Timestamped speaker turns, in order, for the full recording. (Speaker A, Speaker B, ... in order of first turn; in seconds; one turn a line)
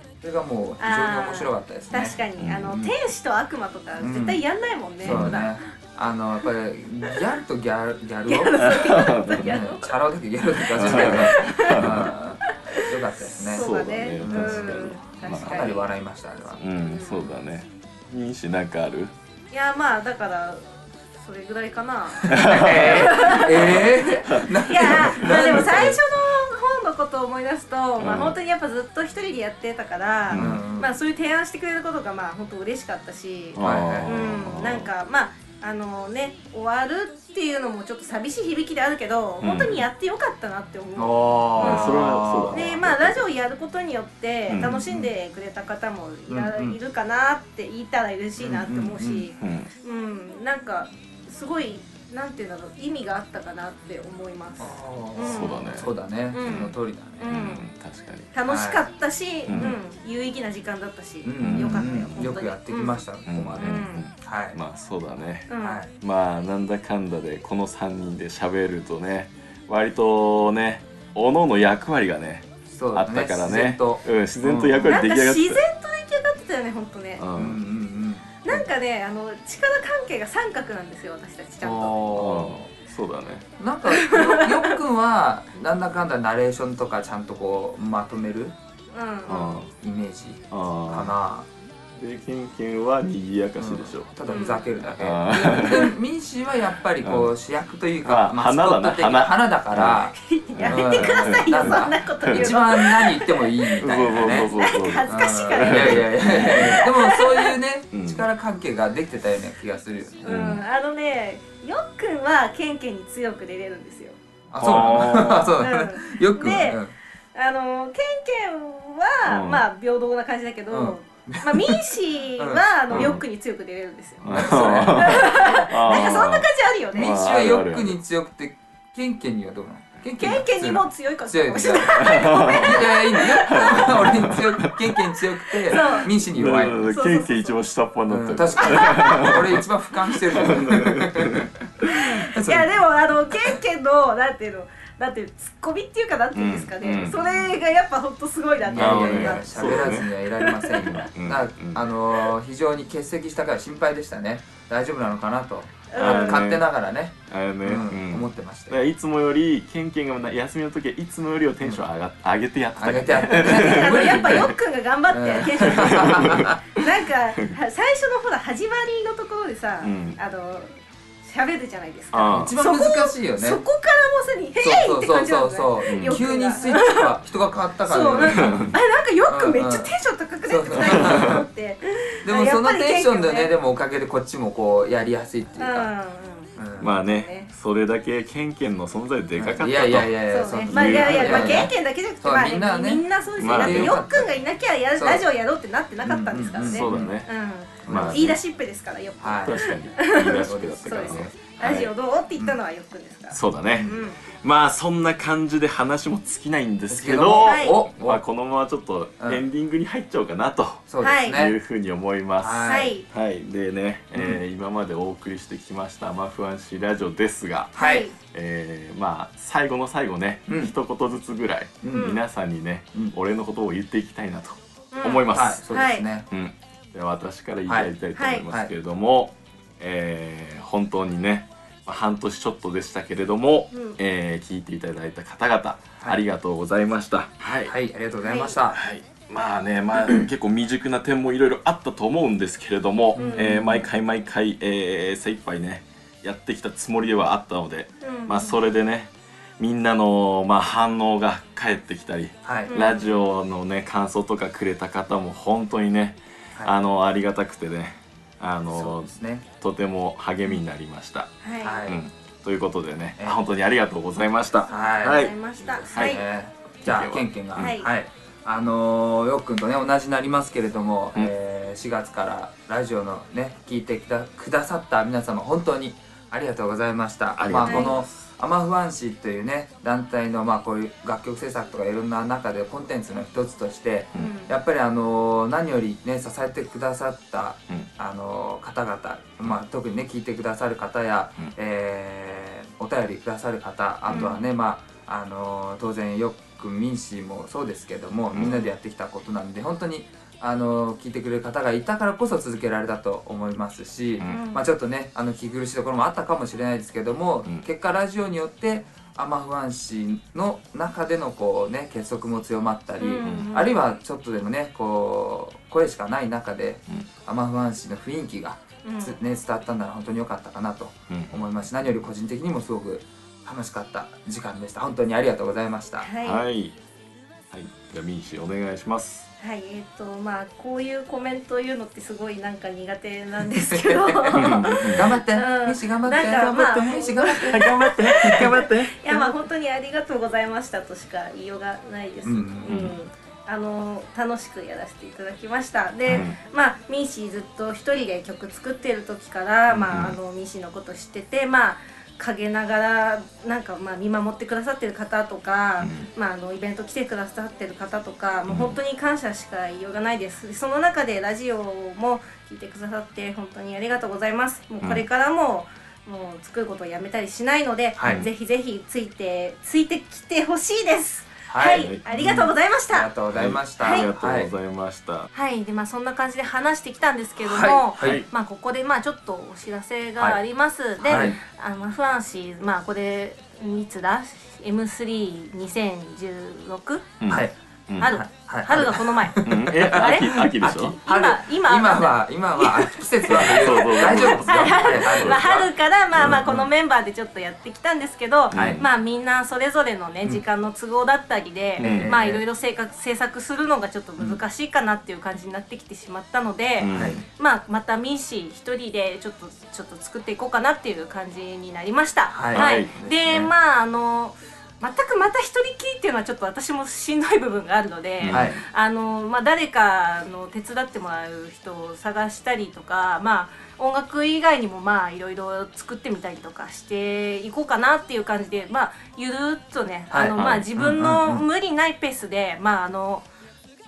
Speaker A: 0.2-2.9
Speaker B: 0.8-5.6
Speaker C: 2.4-2.8
Speaker A: 4.0-4.4
Speaker A: 5.0-16.6
Speaker C: 5.0-5.5
Speaker B: 8.3-9.9
Speaker C: 8.6-9.6
Speaker C: 10.7-12.1
Speaker B: 10.7-12.1
Speaker B: 13.4-15.9
Speaker C: 13.5-15.8
Speaker C: 16.6-19.1
Speaker B: 16.9-17.3
Speaker B: 19.5-55.7
Speaker A: 22.2-26.0
Speaker C: 22.2-25.9
Speaker C: 28.0-28.4
Speaker C: 30.3-30.6
Speaker A: 30.3-30.9
Speaker C: 33.5-34.9
Speaker A: 33.6-34.2
Speaker C: 39.4-39.9
Speaker A: 41.0-42.7
Speaker C: 41.5-43.3
Speaker C: 44.5-44.8
Speaker A: 44.6-45.1
Speaker A: 46.3-46.8
Speaker A: 48.4-49.3
Speaker C: 49.4-49.7
Speaker A: 54.6-57.4
Speaker C: 55.2-55.9
Speaker B: 56.3-57.6
Speaker C: 56.4-56.7
Speaker C: 57.3-58.3
Speaker B: 58.3-63.0
Speaker A: 58.5-58.8
Speaker C: 59.5-59.8
Speaker A: 59.5-59.8
Speaker A: 61.2-64.6
Speaker C: 61.4-62.4
Speaker C: 63.3-75.6
Speaker B: 63.6-64.0
Speaker B: 65.5-65.8
Speaker A: 65.6-65.9
Speaker A: 72.7-75.0
Speaker B: 74.8-77.2
Speaker C: 77.2-77.6
Speaker A: 77.3-78.7
Speaker B: 78.4-82.0
Speaker A: 81.6-82.7
Speaker C: 82.1-83.4
Speaker A: 83.6-88.5
Speaker B: 83.9-84.7
Speaker B: 88.9-89.6
Speaker C: 89.3-89.7
Speaker A: 89.6-91.5
Speaker C: 90.5-91.1
Speaker C: 91.9-94.1
Speaker A: 93.6-110.6
Speaker B: 94.3-94.7
Speaker C: 94.8-96.0
Speaker C: 97.0-97.3
Speaker C: 98.0-102.7
Speaker B: 100.2-107.5
Speaker C: 103.8-106.9
Speaker C: 107.9-108.3
Speaker B: 110.2-114.2
Speaker C: 110.2-110.6
Speaker A: 114.5-116.9
Speaker C: 114.6-115.6
Speaker B: 115.6-116.8
Speaker B: 117.3-127.3
Speaker C: 119.2-119.6
Speaker A: 120.7-123.2
Speaker C: 122.9-123.2
Speaker C: 124.2-128.0
Speaker A: 124.3-126.1
Speaker A: 126.9-137.0
Speaker B: 130.2-134.3
Speaker C: 131.9-135.1
Speaker B: 135.7-136.1
Speaker C: 135.7-142.0
Speaker B: 136.8-137.6
Speaker A: 138.1-142.8
Speaker B: 138.6-139.3
Speaker B: 141.9-151.0
Speaker C: 146.3-147.2
Speaker A: 147.1-147.6
Speaker A: 148.6-158.8
Speaker C: 148.7-150.1
Speaker C: 150.8-151.8
Speaker B: 155.9-156.5
Speaker C: 155.9-156.6
Speaker C: 157.3-164.5
Speaker A: 162.8-164.5
Speaker B: 163.3-177.1
Speaker A: 165.1-166.6
Speaker C: 165.6-166.7
Speaker C: 169.8-170.2
Speaker C: 172.1-172.5
Speaker A: 172.2-173.6
Speaker A: 174.6-178.7
Speaker C: 175.9-176.2
Speaker B: 177.8-183.5
Speaker C: 178.2-178.8
Speaker A: 179.2-179.9
Speaker A: 180.4-181.4
Speaker C: 180.8-181.4
Speaker A: 182.2-185.9
Speaker B: 185.6-187.5
Speaker A: 186.6-186.9
Speaker C: 186.8-191.7
Speaker A: 189.4-194.3
Speaker B: 190.3-204.2
Speaker C: 193.4-194.1
Speaker A: 194.9-195.3
Speaker A: 196.0-197.1
Speaker C: 196.6-197.3
Speaker A: 197.8-198.4
Speaker C: 197.8-198.4
Speaker A: 199.2-201.4
Speaker C: 199.4-201.9
Speaker C: 203.3-225.6
Speaker A: 203.7-204.1
Speaker A: 206.9-208.2
Speaker B: 207.4-207.8
Speaker A: 210.9-211.6
Speaker B: 211.0-211.4
Speaker A: 212.4-213.0
Speaker B: 212.6-213.0
Speaker A: 214.1-214.4
Speaker A: 217.8-218.1
Speaker B: 217.8-218.1
Speaker A: 220.5-220.7
Speaker A: 221.8-222.2
Speaker B: 221.9-222.2
Speaker B: 224.9-226.1
Speaker A: 225.3-226.2
Speaker C: 226.3-237.7
Speaker A: 227.7-227.9
Speaker B: 228.2-228.4
Speaker A: 237.7-238.8
Speaker B: 238.2-238.6
Speaker C: 238.7-261.3
Speaker A: 243.1-243.8
Speaker B: 243.2-243.7
Speaker B: 248.0-248.6
Speaker A: 252.4-252.7
Speaker B: 252.7-253.2
Speaker A: 258.7-259.4
Speaker B: 261.4-261.8
Speaker A: 261.6-262.0
Speaker C: 261.8-265.4
Speaker B: 264.6-266.2
Speaker A: 264.7-326.1
Speaker C: 265.9-266.2
Speaker C: 266.8-267.8
Speaker B: 267.6-267.9
Speaker C: 277.4-278.1
Speaker B: 277.6-277.9
Speaker B: 284.1-284.5
Speaker B: 294.1-294.4
Speaker C: 298.3-298.6
Speaker B: 298.4-298.7
Speaker B: 304.2-304.6
Speaker B: 313.0-313.7
Speaker C: 313.2-313.6
Speaker B: 318.8-319.2
Speaker C: 321.1-321.4
Speaker B: 326.0-326.4
Speaker C: 326.2-326.8
Speaker C: 327.5-329.3
Speaker B: 329.4-373.1
Speaker A: 333.5-338.6
Speaker C: 334.3-335.2
Speaker C: 337.4-339.2
Speaker A: 342.2-342.8
Speaker C: 342.6-343.0
Speaker C: 346.1-346.4
Speaker A: 349.7-350.0
Speaker C: 349.9-350.2
Speaker C: 355.8-356.1
Speaker C: 358.5-358.8
Speaker C: 364.8-365.1
Speaker A: 368.0-368.2
Speaker A: 371.5-374.5
Speaker C: 371.7-372.0
Speaker C: 373.3-375.3
Speaker B: 373.8-374.1
Speaker B: 375.3-387.1
Speaker A: 377.4-378.2
Speaker C: 378.0-378.3
Speaker A: 381.0-381.4
Speaker C: 381.1-381.4
Speaker C: 387.2-388.2
Speaker A: 387.3-396.6
Speaker B: 388.0-390.5
Speaker C: 389.4-391.0
Speaker B: 391.0-433.3
Speaker C: 393.3-396.6
Speaker C: 398.5-398.8
Speaker A: 398.5-398.8
Speaker C: 401.8-402.1
Speaker A: 401.8-402.4
Speaker C: 406.8-407.2
Speaker A: 406.9-407.2
Speaker A: 412.3-413.5
Speaker C: 412.5-412.9
Speaker C: 418.2-418.6
Speaker A: 418.3-418.6
Speaker A: 430.1-431.5
Speaker C: 430.4-430.7